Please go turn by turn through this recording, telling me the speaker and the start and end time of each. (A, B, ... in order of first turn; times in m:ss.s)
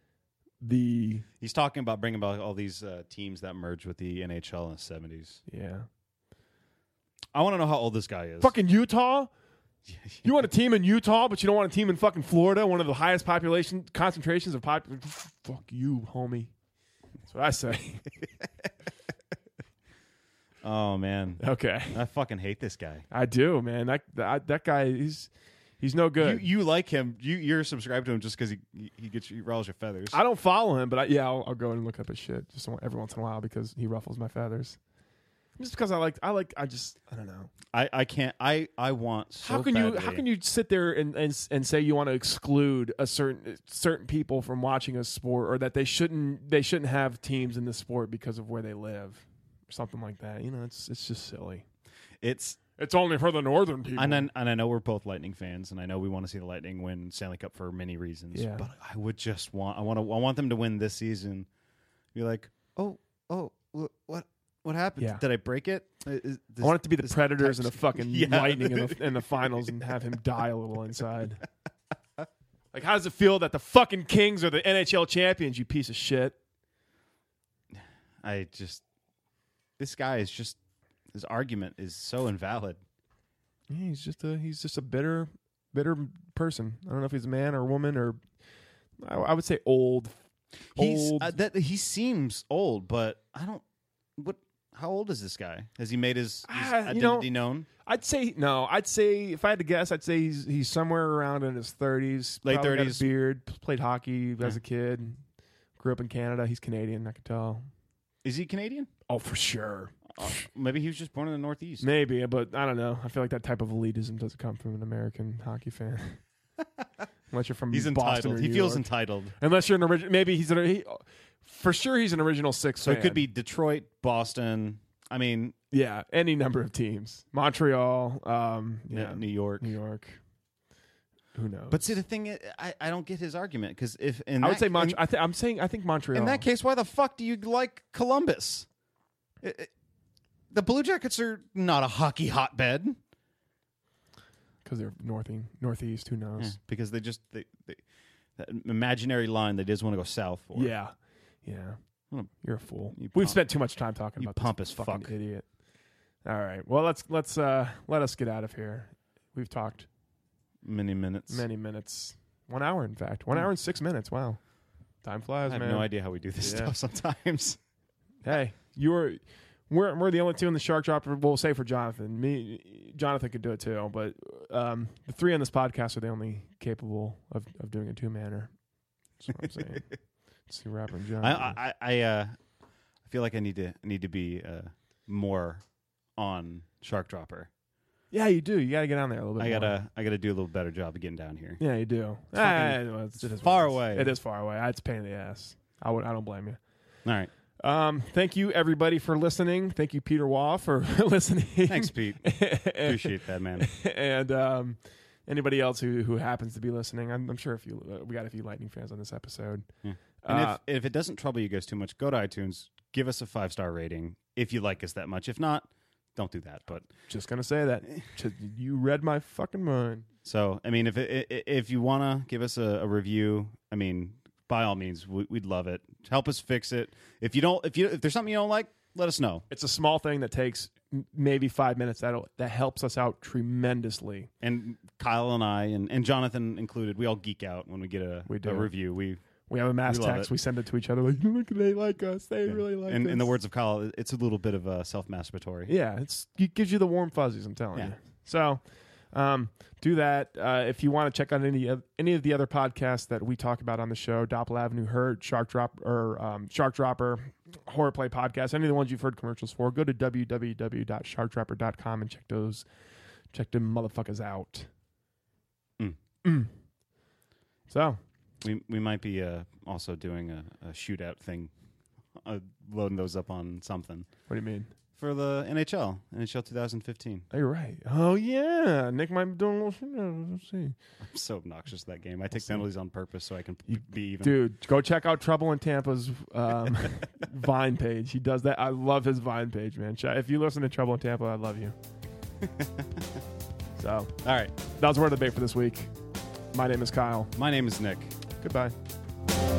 0:00.6-0:01.2 A
0:01.4-0:05.4 B
0:05.5-0:05.9 A
0:07.3-0:08.5 B
0:08.4-0:09.3 A
0:09.9-0:10.2 B
0:10.2-0:16.5 A
0:17.3-0:18.1 A
0:20.6-0:23.0 B
0:21.4-0:22.0 A
0:23.1-0:26.4 A
0:26.2-0:30.2 B
0:30.1-0:34.8 A
0:35.6-0:37.5 A
0:37.7-0:40.2 B
0:39.4-0:51.6 A
0:52.2-0:52.6 B
0:52.8-0:54.3 A
0:54.0-1:01.5 B
0:58.3-0:58.7 A
1:02.1-1:09.5 B
1:05.0-1:05.2 A
1:06.6-1:11.4 A
1:12.7-1:16.4 A
1:17.7-1:18.8 B
1:19.8-1:20.6 B
1:21.1-1:22.8 B
1:23.7-1:28.2 A
1:29.0-1:30.2 A
1:30.7-1:31.3 A
1:30.7-1:33.6 B
1:34.2-1:37.7 B
1:36.4-1:37.3 A
1:37.8-1:45.2 A
1:42.4-1:43.1 B
1:45.8-1:47.6 A
1:48.2-1:48.9 B
1:49.1-1:50.4 A
1:50.1-1:51.9 B
1:51.8-1:56.2 A
1:57.3-2:03.2 A
1:57.7-1:59.3 B
2:02.8-2:05.5 B
2:05.7-2:10.2 A
2:08.9-2:09.7 B
2:11.3-2:12.0 A
2:11.7-2:15.0 B
2:14.4-2:16.4 A
2:16.1-2:18.7 B
2:19.4-2:19.7 B
2:20.5-2:23.0 B
2:24.6-2:26.6 A
2:26.4-2:27.8 B
2:28.4-2:30.7 B
2:30.5-2:31.8 A
2:32.4-2:35.5 A
2:32.9-2:33.4 B
2:34.2-2:35.1 B
2:36.2-2:39.9 A
2:40.6-2:41.4 B
2:41.3-2:44.4 A
2:45.0-2:46.7 A
2:45.4-2:47.6 B
2:48.2-2:58.5 A
2:59.2-2:59.9 A
2:59.4-2:59.8 B
3:00.5-3:01.6 A
3:01.2-3:02.4 B
3:03.0-3:05.6 B
3:06.2-3:07.5 B
3:08.1-3:09.7 A
3:09.4-3:11.6 B
3:11.6-3:16.6 A
3:12.3-3:14.1 B
3:17.0-3:17.3 B
3:17.6-3:29.6 A
3:21.6-3:23.7 B
3:29.8-3:36.9 B
3:30.2-3:30.6 A
3:37.1-3:40.0 A
3:40.2-3:49.4 B
3:49.5-3:54.3 A
3:54.4-3:59.2 B
3:58.3-3:58.7 A
3:59.5-4:03.3 A
3:59.8-4:00.3 B
4:02.5-4:05.7 B
4:05.7-4:08.6 A
4:09.1-4:22.6 A
4:23.3-4:24.7 A
4:26.2-4:26.5 A
4:27.7-4:28.0 A
4:28.4-4:31.5 B
4:32.2-4:34.1 B
4:34.3-4:34.7 A
4:35.0-4:37.3 B
4:37.3-4:40.7 A
4:41.0-4:44.4 B
4:43.7-4:51.8 A
4:52.4-4:53.2 B
4:53.8-4:54.1 A
4:54.2-4:54.5 B
4:54.8-4:55.9 A
4:56.5-4:57.3 A
4:57.4-4:58.2 B
4:58.4-4:58.7 A